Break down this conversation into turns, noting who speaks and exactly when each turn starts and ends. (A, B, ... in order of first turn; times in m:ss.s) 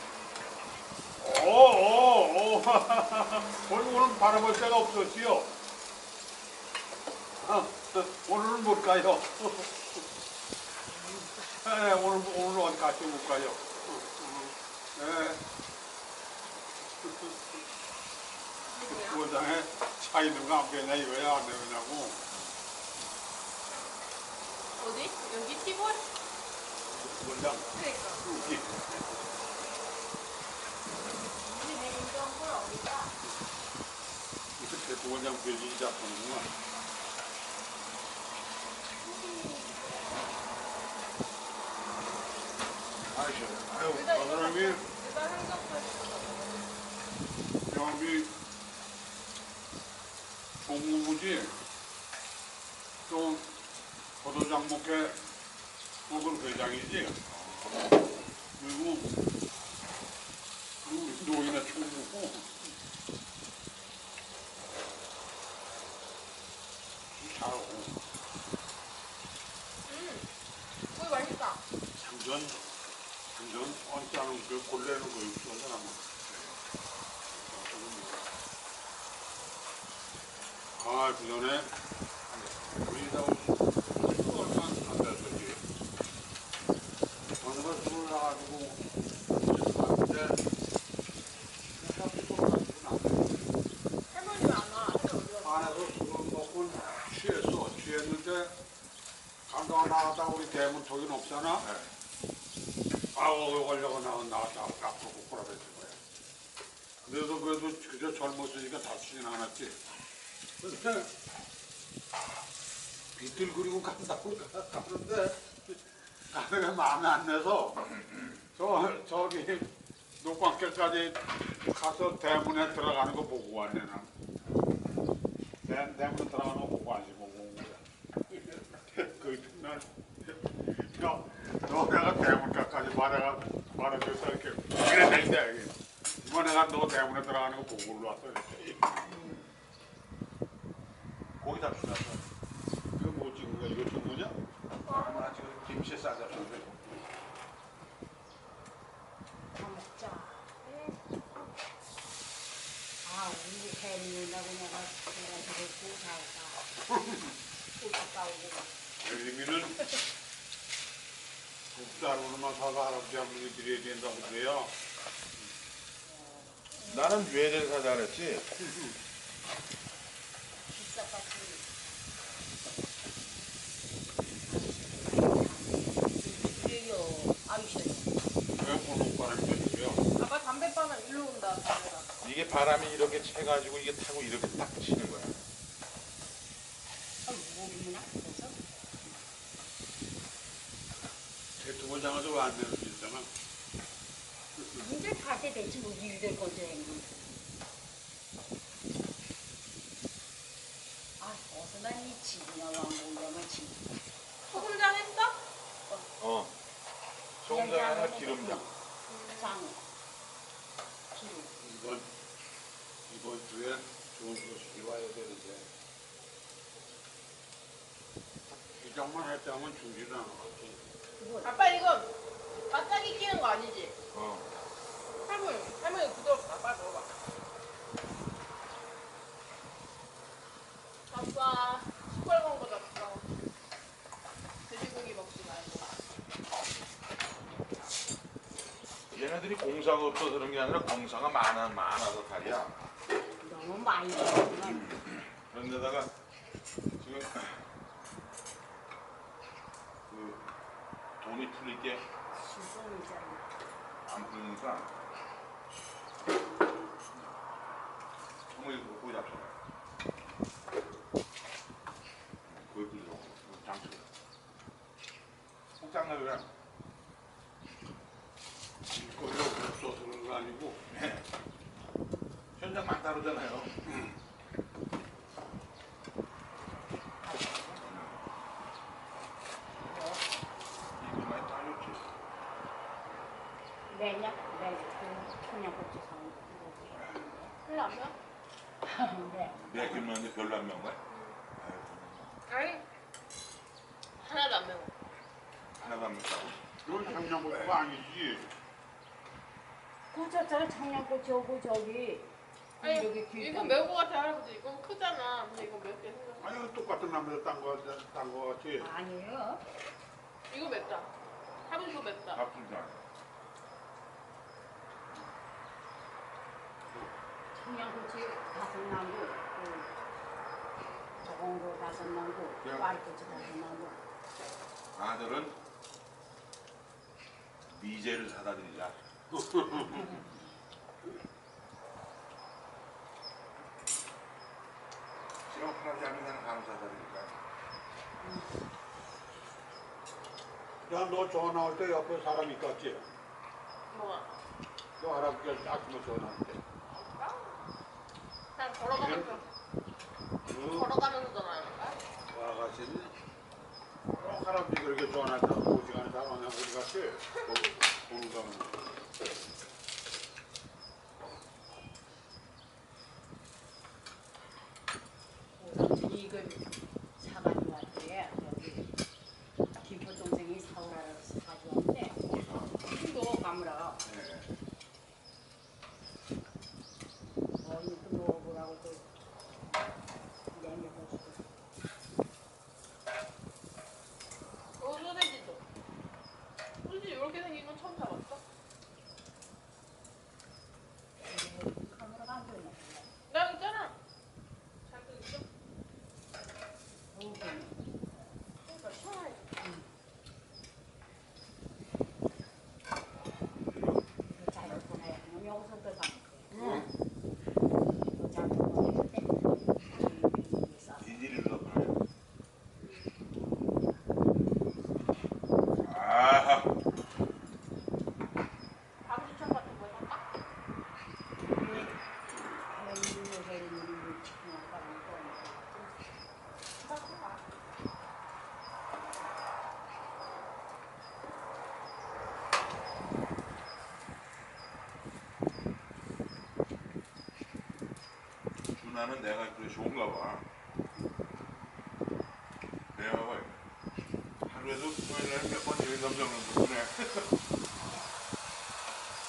0:01.2-0:05.6 A
0:07.4-0:10.0 A
0:11.0-0:11.3 B
0:11.5-0:15.4 A
0:17.0-0:17.4 A
0:18.6-0:19.3 C
0:18.8-0:22.2 A
0:24.8-0:26.0 C
0:27.0-0:27.7 A
0:27.7-0:28.2 C
0:28.2-0:29.4 A
0:31.4-0:33.1 B
0:34.6-0:36.5 A
0:39.0-0:40.0 B
0:43.1-0:44.7 D
0:43.9-0:46.7 C
0:44.4-0:44.7 A
0:47.7-0:48.4 A
0:50.6-0:51.6 A
0:53.1-0:53.6 A
0:54.2-0:55.2 A
0:56.1-0:57.2 A
0:57.2-0:58.0 D
0:58.6-0:59.2 A
1:00.8-1:02.7 A
1:07.1-1:08.0 A
1:09.9-1:10.3 C
1:10.9-1:11.6 C
1:12.0-1:12.7 A
1:13.3-1:16.0 A
1:16.3-1:16.6 D
1:17.3-1:18.3 A
1:20.8-1:21.7 A
1:22.3-1:22.6 D
1:22.8-1:25.6 A
1:27.4-1:30.4 A
1:31.7-1:33.5 A
1:34.1-1:35.9 C
1:35.4-1:38.6 A
1:39.5-1:41.7 A
1:41.6-1:41.9 D
1:43.1-1:46.0 A
1:47.0-1:49.8 A
1:50.6-1:51.1 A
1:53.1-1:57.9 A
1:58.5-2:04.1 A
2:05.6-2:19.0 A
2:21.4-2:22.2 D
2:23.0-2:24.4 A
2:24.8-2:25.3 C
2:24.9-2:26.8 D
2:29.3-2:30.5 B
2:30.6-2:31.0 C
2:33.0-2:36.7 B
2:36.9-2:37.3 A
2:37.8-2:38.7 B
2:39.0-2:39.8 A
2:41.7-2:44.7 A
2:46.1-2:47.3 B
2:46.8-2:48.5 D
2:48.6-2:49.0 A
2:50.6-2:51.7 B
2:54.5-2:58.2 B
2:58.5-3:00.0 A
3:00.2-3:02.1 C
3:02.2-3:05.4 D
3:07.2-3:08.6 B
3:11.6-3:13.3 A
3:14.7-3:17.4 B
3:21.2-3:23.9 B
3:24.5-3:25.4 C
3:26.2-3:26.5 D
3:27.4-3:28.6 D
3:27.4-3:28.7 B
3:29.1-3:29.6 C
3:29.4-3:29.8 B
3:31.1-3:31.5 B
3:31.6-3:32.1 A
3:33.1-3:35.7 A
3:38.8-3:40.8 A
3:41.2-3:41.5 B
3:41.4-3:42.1 C
3:42.7-3:44.0 C
3:44.1-3:44.5 D
3:45.2-3:47.1 C
3:51.1-3:53.3 C
3:54.7-3:55.9 C
3:59.1-4:02.8 D
4:03.4-4:05.0 B
4:04.6-4:06.1 D
4:07.0-4:07.7 D
4:10.1-4:10.4 D
4:11.2-4:12.0 D
4:12.3-4:13.5 B
4:14.0-4:15.0 D
4:17.1-4:17.4 D
4:18.5-4:19.6 D
4:22.4-4:24.1 D
4:25.8-4:26.5 D
4:28.9-4:30.8 A
4:30.9-4:31.3 D
4:32.6-4:33.8 D
4:33.9-4:34.1 A
4:36.5-4:37.8 B
4:37.8-4:38.2 D
4:39.7-4:40.3 B
4:40.9-4:42.1 D
4:43.9-4:47.5 B
4:47.6-4:48.1 C
4:48.8-4:50.1 B
4:49.6-4:51.0 D
4:51.1-4:51.4 C
4:51.6-4:52.4 D
4:52.5-4:52.8 C
4:54.2-4:54.9 C
4:55.8-4:56.6 D
4:56.8-4:58.5 A
5:00.1-5:02.3 B
5:02.8-5:03.8 B
5:02.8-5:06.4 C
5:06.4-5:08.9 A
5:08.8-5:09.6 B
5:10.5-5:11.1 C
5:11.7-5:12.4 C
5:12.3-5:13.0 D
5:17.5-5:19.9 B
5:21.2-5:24.0 B
5:22.6-5:23.5 D
5:24.9-5:25.6 D
5:27.7-5:29.0 D
5:29.3-5:30.2 A
5:29.9-5:30.3 B
5:35.5-5:37.4 D
5:38.2-5:38.5 B
5:40.8-5:43.1 A
5:43.9-5:44.4 C
5:45.0-5:46.6 A
5:46.9-5:47.6 C
5:48.6-5:49.5 C
5:48.9-5:49.4 A
5:50.4-5:50.9 A
5:50.6-5:52.0 C
5:52.3-5:53.1 A
5:54.0-5:59.0 A
6:05.6-6:08.9 B
6:09.7-6:12.2 B
6:12.2-6:12.9 D
6:12.8-6:14.0 B
6:14.0-6:14.5 D
6:17.6-6:19.1 B
6:20.5-6:21.4 B
6:24.8-6:25.6 C
6:26.8-6:28.4 C
6:31.2-6:33.1 B
6:33.3-6:34.0 C
6:34.8-6:35.4 C
6:37.1-6:37.7 B
6:38.6-6:39.4 C
6:39.6-6:39.9 B
6:43.7-6:44.0 D
6:44.2-6:46.5 B
6:46.5-6:46.9 D
6:48.0-6:51.3 B
6:51.0-6:52.0 D
6:52.8-6:53.1 C
6:55.8-6:56.7 D
6:59.0-7:00.2 C
7:01.4-7:06.1 B
7:01.6-7:01.9 D
7:06.8-7:07.4 C
7:18.7-7:20.5 D
7:20.9-7:21.8 B
7:22.9-7:23.6 D
7:24.4-7:27.4 D